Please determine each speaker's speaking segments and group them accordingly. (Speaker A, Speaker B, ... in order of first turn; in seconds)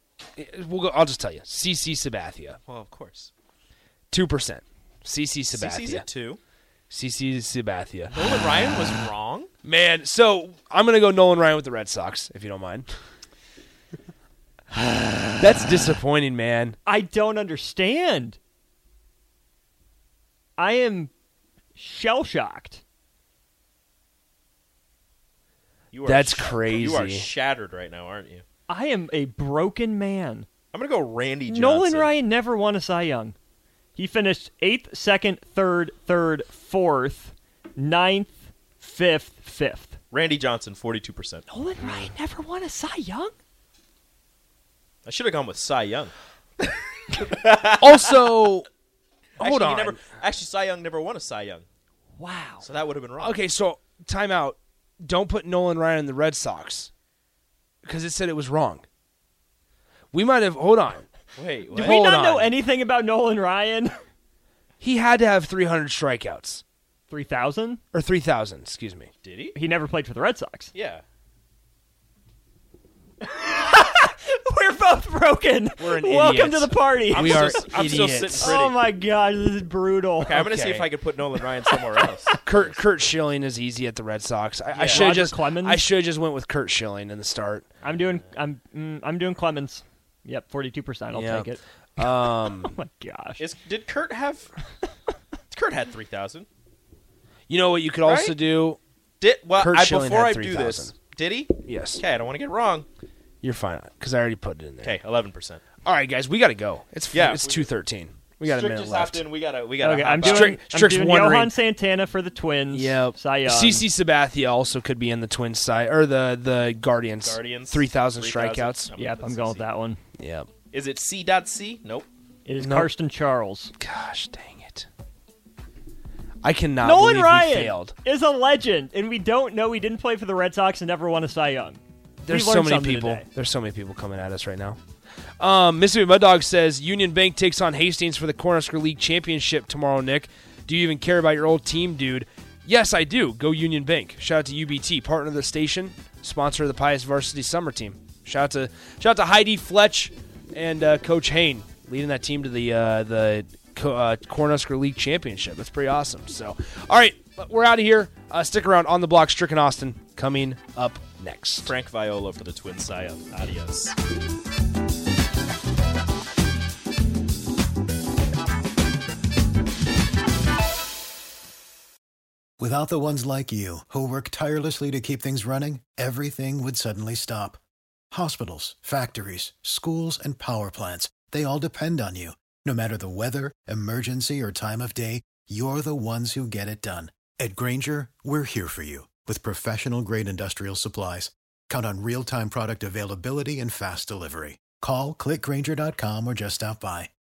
Speaker A: 0.4-2.6, 4.1-6.0, 6.9-8.2, 9.6-12.9, 15.4-16.8, 26.0-27.3, 47.8-48.7, 49.4-50.0, 53.2-56.9, 57.8-58.9, 60.1-61.1, 61.8-62.5, 64.8-66.6, 67.9-69.1, 75.8-78.6, 80.3-80.9, 82.4-87.7, 91.1-92.8, 97.5-98.8, 99.6-100.9, 101.7-102.0, 103.4-105.0, 105.8-109.2, 110.2-111.5, 112.7-118.9, 120.2-120.5, 122.6-122.9, 123.8-124.9, 126.4-127.9, 132.2-134.8, 135.4-161.7
Speaker B: 2.7-3.3, 5.5-6.4, 8.1-9.5, 25.9-28.4, 30.7-32.1, 40.1-41.5, 45.0-48.4, 49.4-51.6, 52.6-53.4, 61.4-62.0, 69.2-69.6, 70.7-71.0, 77.1-78.8, 80.2-83.0, 84.7-85.1, 93.4-94.5, 95.5-96.5, 98.0-98.4, 99.2-102.9, 104.8-105.6, 107.1-107.7, 108.4-110.6, 117.2-119.7, 120.7-122.1, 161.6-164.0
Speaker C: 16.9-18.4, 20.6-21.1, 21.8-22.8, 28.7-30.5, 31.5-33.4, 34.0-40.0, 41.5-43.4, 52.2-52.7, 61.8-64.0, 67.1-67.8, 69.5-70.7, 73.3-77.8, 78.4-80.4, 84.8-85.8, 87.8-93.5, 109.8-113.8, 118.9-120.0, 122.5-123.7, 126.8-133.3
Speaker D: 172.6-177.6, 178.1-197.1